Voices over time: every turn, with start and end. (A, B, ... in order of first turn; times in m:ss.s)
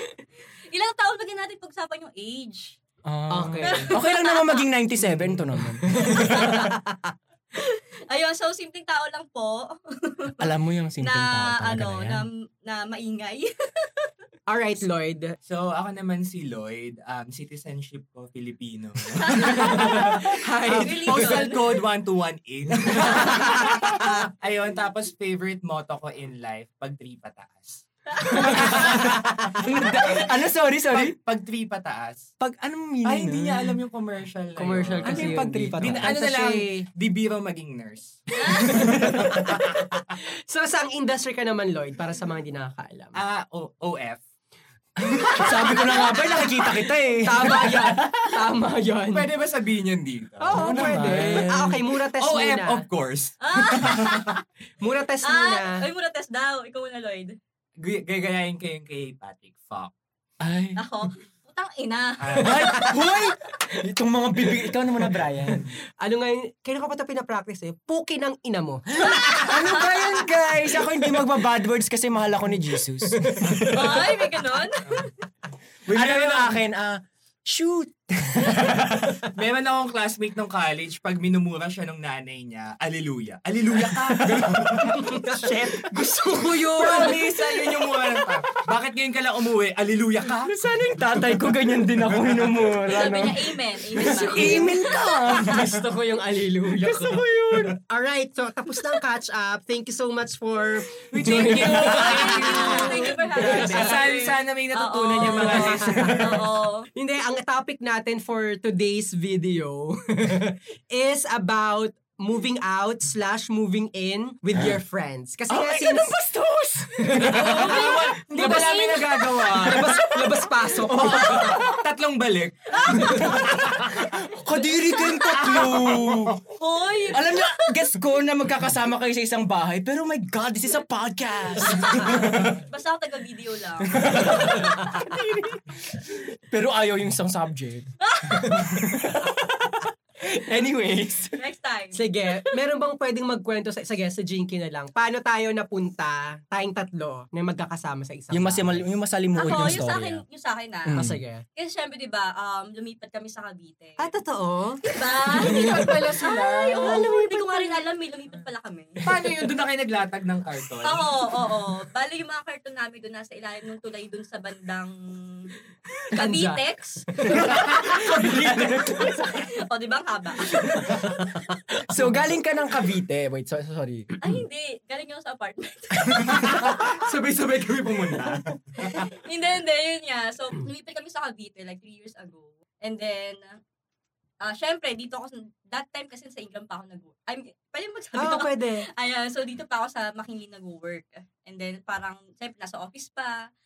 0:00.7-0:02.8 A
0:03.0-0:06.7 B
0:03.3-0:04.0 C
0:03.6-0:04.7 A
0:05.9-0:07.0 C
0:06.2-0:06.8 A
0:07.6-0:10.5 A
0:10.4-0:12.3 B
0:11.0-0:14.1 A
0:14.5-0:15.4 C
0:15.5-0:30.3 D
0:19.2-0:21.6 A
0:19.4-0:21.4 C
0:23.0-0:24.0 C
0:28.3-0:31.2 B
0:30.9-0:32.3 D
0:32.4-0:33.8 B
0:33.0-0:39.7 D
0:34.6-0:36.9 C
0:35.0-0:36.4 B
0:38.4-0:38.9 A
0:38.7-0:39.6 B
0:38.9-0:43.2 C
0:43.1-0:44.2 D
0:45.0-0:48.4 B
0:45.3-0:49.3 C
0:49.1-0:51.6 D
0:50.4-0:52.8 C
0:50.5-0:51.8 B
0:52.1-0:54.4 D
0:53.4-0:54.4 A
0:54.8-0:55.8 C
0:55.2-0:57.4 A
0:57.8-0:59.9 D
1:00.4-1:00.8 B
1:00.8-1:03.0 A
1:02.2-1:02.9 D
1:02.4-1:05.7 B
1:06.0-1:09.9 C
1:08.9-1:14.3 B
1:09.2-1:10.0 A
1:13.2-1:13.6 C
1:13.7-1:15.1 A
1:15.9-1:16.6 D
1:15.9-1:19.1 B
1:19.2-1:25.9 D
1:23.8-1:25.0 B
1:24.8-1:27.9 C
1:26.4-1:30.5 D
1:26.8-1:27.9 B
1:30.5-1:35.7 B
1:30.7-1:31.0 C
1:32.1-1:32.8 D
1:32.8-1:35.5 A
1:33.9-1:37.3 C
1:36.8-1:37.8 B
1:37.8-1:44.2 C
1:41.1-1:46.5 D
1:41.2-1:42.8 B
1:41.6-1:46.9 A
1:45.3-1:46.3 C
1:47.0-1:56.1 C
1:55.5-2:01.8 B
1:57.0-1:58.9 C
1:57.3-1:59.4 A
1:57.4-1:59.9 D
1:59.6-2:01.4 C
2:01.0-2:04.0 D
2:01.1-2:01.7 A
2:02.8-2:05.9 A
2:03.0-2:06.4 B
2:05.1-2:06.4 D
2:06.5-2:07.8 A
2:07.1-2:12.6 B
2:11.7-2:15.0 A
2:13.9-2:21.4 B
2:14.3-2:14.8 C
2:18.0-2:18.9 A
2:21.4-2:22.5 A
2:21.9-2:28.9 C
2:28.3-2:30.2 B
2:29.4-2:31.0 A
2:30.9-2:31.2 B
2:30.9-2:31.4 C
2:31.6-2:34.1 A
2:34.0-2:34.8 C
2:34.8-2:39.0 A
2:35.2-2:37.1 D
2:35.4-2:35.7 C
2:35.4-2:35.9 B
2:36.7-2:37.8 C
2:39.0-2:41.1 D
2:40.8-2:45.5 A
2:46.1-2:48.1 A
2:46.1-2:46.6 C
2:47.1-2:48.1 C
2:47.3-2:49.5 B
2:47.6-2:48.8 D
2:48.6-2:51.2 A
2:50.6-2:51.2 B
2:50.9-2:51.2 C
2:51.8-2:54.2 B
2:54.2-2:56.8 A
2:56.0-2:56.9 B
2:56.3-2:59.1 D
2:58.8-3:03.6 A
3:04.4-3:13.5 A
3:08.2-3:08.9 C